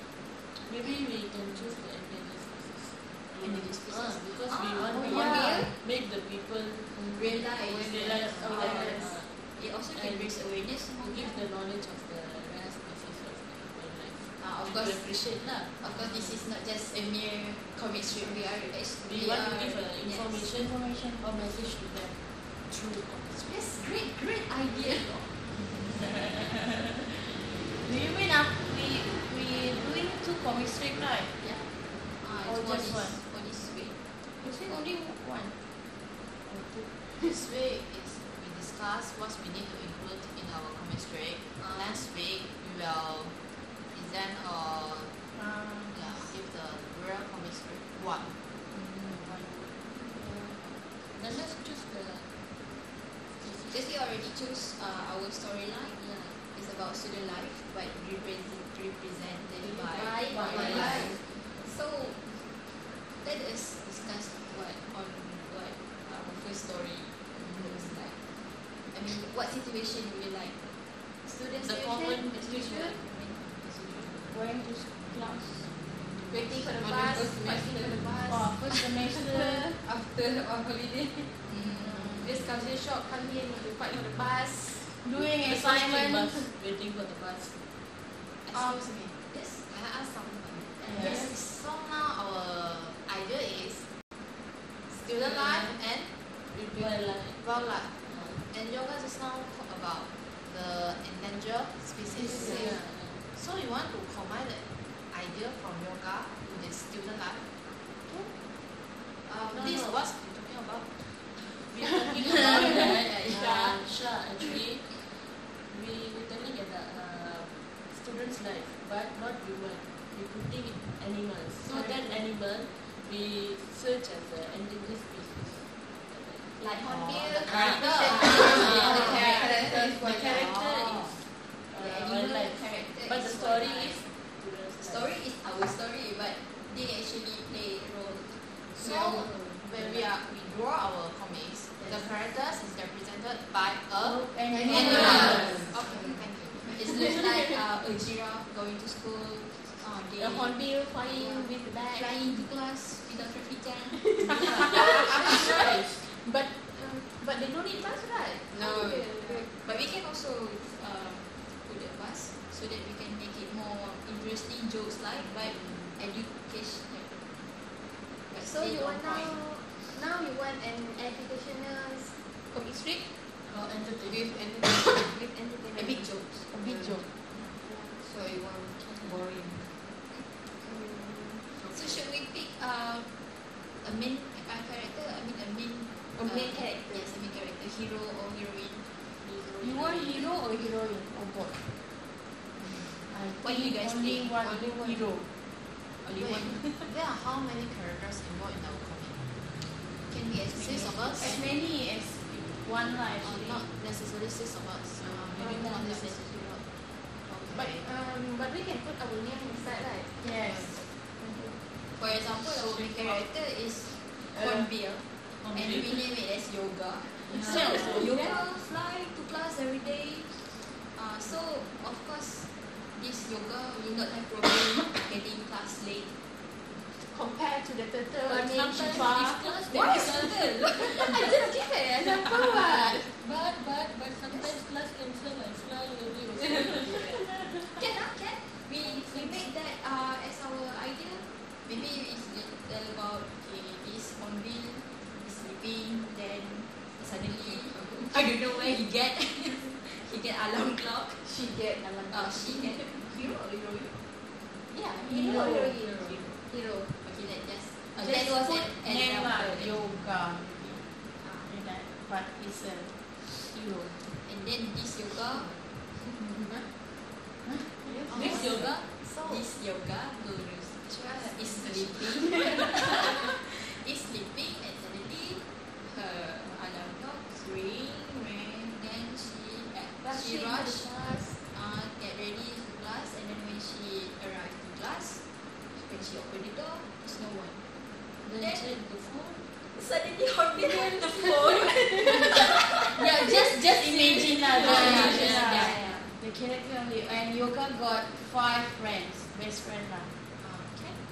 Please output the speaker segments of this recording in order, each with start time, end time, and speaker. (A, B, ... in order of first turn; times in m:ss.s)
0:00.6-0:15.7 A
0:03.4-0:05.7 B
0:04.9-0:05.8 C
0:06.9-0:08.7 D
0:07.1-0:11.4 B
0:08.3-0:09.1 C
0:14.4-0:20.5 B
0:18.9-0:23.3 A
0:20.5-0:21.3 C
0:23.3-0:25.4 B
0:25.9-0:31.3 C
0:31.4-0:34.0 B
0:32.4-0:33.2 C
0:34.4-0:35.6 C
0:36.4-0:37.1 C
0:37.2-0:45.2 E
0:41.6-0:42.1 B
0:45.3-0:46.1 C
0:45.9-0:48.3 E
0:48.7-0:49.7 C
0:49.1-0:49.4 A
0:50.0-0:50.5 F
0:51.1-0:52.3 A
0:53.3-0:53.8 A
0:53.7-1:14.3 B
0:56.0-0:56.4 A
0:59.6-1:01.2 F
1:00.3-1:01.2 A
1:00.4-1:01.1 E
1:11.6-1:13.0 A
1:14.3-1:15.7 C
1:16.1-1:16.4 B
1:16.3-1:18.4 F
1:16.7-1:18.8 D
1:18.3-1:19.6 C
1:19.1-1:19.7 F
1:19.8-1:21.4 D
1:21.5-1:22.4 B
1:21.8-1:22.3 C
1:22.2-1:24.9 F
1:24.9-1:26.5 C
1:25.3-1:27.6 A
1:28.4-1:34.0 E
1:28.5-1:29.7 B
1:30.8-1:31.4 C
1:34.8-1:36.2 E
1:35.2-1:35.8 A
1:36.5-1:38.4 A
1:37.2-1:47.5 E
1:42.2-1:43.2 A
1:49.2-1:49.8 B
1:49.5-1:50.0 A
1:49.5-1:51.3 E
1:51.7-2:06.6 A
1:52.3-1:53.8 B
1:53.3-1:53.8 C
2:06.6-2:09.5 F
2:06.8-2:09.2 E
2:07.4-2:15.2 A
2:08.4-2:09.1 B
2:08.4-2:09.9 C
2:08.8-2:10.6 D
2:10.3-2:11.2 E
2:11.7-2:14.0 B
2:14.8-2:19.1 B
2:18.7-2:20.0 A
2:18.8-2:26.7 E
2:21.8-2:22.2 B
2:24.0-2:25.7 C
2:24.5-2:26.2 D
2:24.7-2:25.6 A
2:24.7-2:35.6 B
2:30.2-2:32.2 F
2:34.0-2:39.9 F
2:34.3-2:36.0 A
2:38.5-2:39.3 D
2:39.6-2:47.4 B
2:48.3-2:49.4 B
2:48.4-2:53.2 F
2:53.4-2:54.4 A
2:54.0-2:55.2 D
2:54.9-2:56.9 F
2:55.7-2:56.5 B
2:56.6-2:57.1 D
2:57.5-2:58.0 F
2:58.0-2:59.9 D
2:58.8-2:59.1 B
3:00.6-3:01.5 F
3:01.6-3:02.0 A
3:01.7-3:09.0 B
3:06.1-3:07.1 F
3:09.2-3:10.2 A
3:09.6-3:11.8 C
3:13.1-3:15.3 C
3:13.4-3:14.4 B
3:14.4-3:15.2 D
3:16.0-3:16.8 B
3:16.1-3:19.2 E
3:20.0-3:21.4 B
3:20.5-3:21.5 E
3:21.2-3:23.7 C
3:23.2-3:27.9 E
3:25.1-3:26.2 C
3:25.4-3:25.8 F
3:27.5-3:30.3 F
3:30.2-3:31.6 C
3:30.4-3:30.7 E
3:31.9-3:46.2 B
3:32.7-3:33.2 A
3:34.3-3:34.7 A
3:35.4-3:36.0 A
3:37.2-3:38.3 A
3:37.5-3:38.4 F
3:46.9-3:49.4 F
3:48.2-3:50.7 A
3:48.6-3:51.6 B
3:50.7-3:53.1 F
3:53.1-3:57.3 A
3:54.2-3:54.6 B
3:57.7-4:11.3 B
3:58.8-3:59.5 A
4:11.2-4:13.2 F
4:12.1-4:14.1 B
4:14.7-4:17.0 F
4:15.0-4:15.8 C
4:16.9-4:19.8 B
4:17.9-4:23.2 C
4:23.5-4:24.0 A
4:24.2-4:26.3 B
4:27.4-4:28.4 C
4:27.8-4:28.3 F
4:28.1-4:29.4 E
4:28.1-4:28.8 A
4:28.2-4:47.7 B
4:30.9-4:32.1 E
4:32.2-4:33.0 F
4:40.0-4:41.4 F
4:40.1-4:40.6 C
4:48.2-4:49.5 A
4:48.2-4:48.8 B
4:49.6-4:53.1 B
4:50.5-4:56.0 F
4:52.9-5:00.1 C
4:53.8-4:56.0 B
4:54.6-4:55.7 A
4:54.6-4:55.3 E
5:00.4-5:01.0 E